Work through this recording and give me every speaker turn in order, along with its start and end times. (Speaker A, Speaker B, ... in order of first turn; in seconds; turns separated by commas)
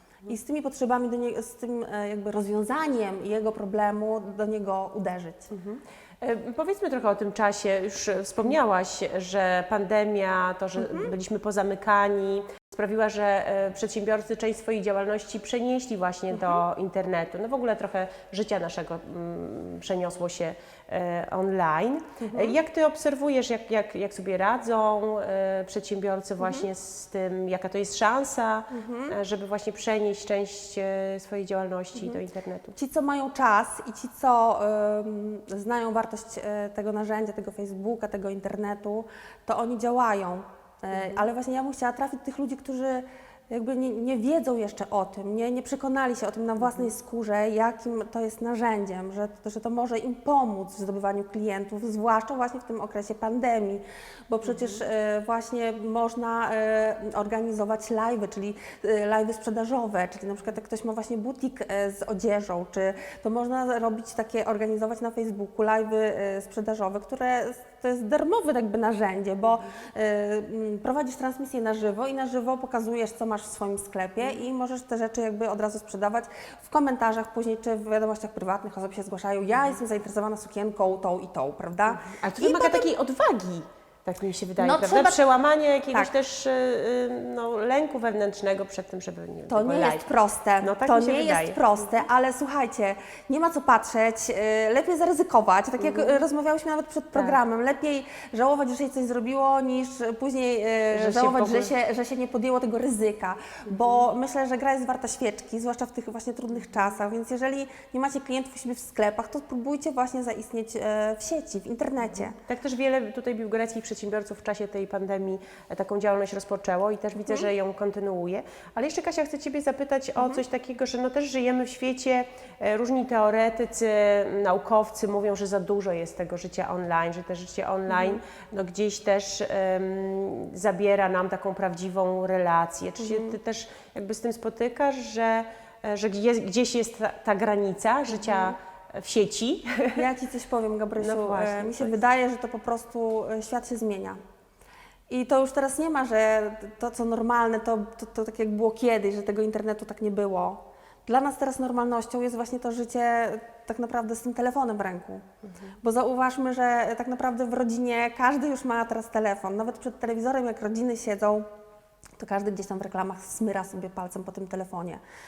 Speaker A: 0.3-5.5, Speaker B: 5.5-32.8, Speaker A: 10.8-11.1, Speaker A: 22.3-22.5, Speaker A: 26.4-26.7, Speaker A: 28.7-29.2, Speaker A: 31.9-32.2, Speaker A: 32.7-82.9, Speaker B: 54.4-54.8, Speaker B: 81.9-90.1, Speaker A: 84.6-85.2, Speaker A: 89.5-112.4, Speaker B: 90.6-91.6, Speaker B: 95.8-96.2, Speaker B: 100.9-101.7, Speaker B: 103.7-104.0, Speaker B: 112.4-140.0, Speaker A: 127.9-128.2, Speaker A: 133.0-133.3, Speaker A: 138.2-138.5, Speaker A: 139.9-144.2, Speaker B: 141.0-141.9, Speaker A: 145.1-155.2, Speaker A: 155.8-161.4, Speaker A: 162.2-165.0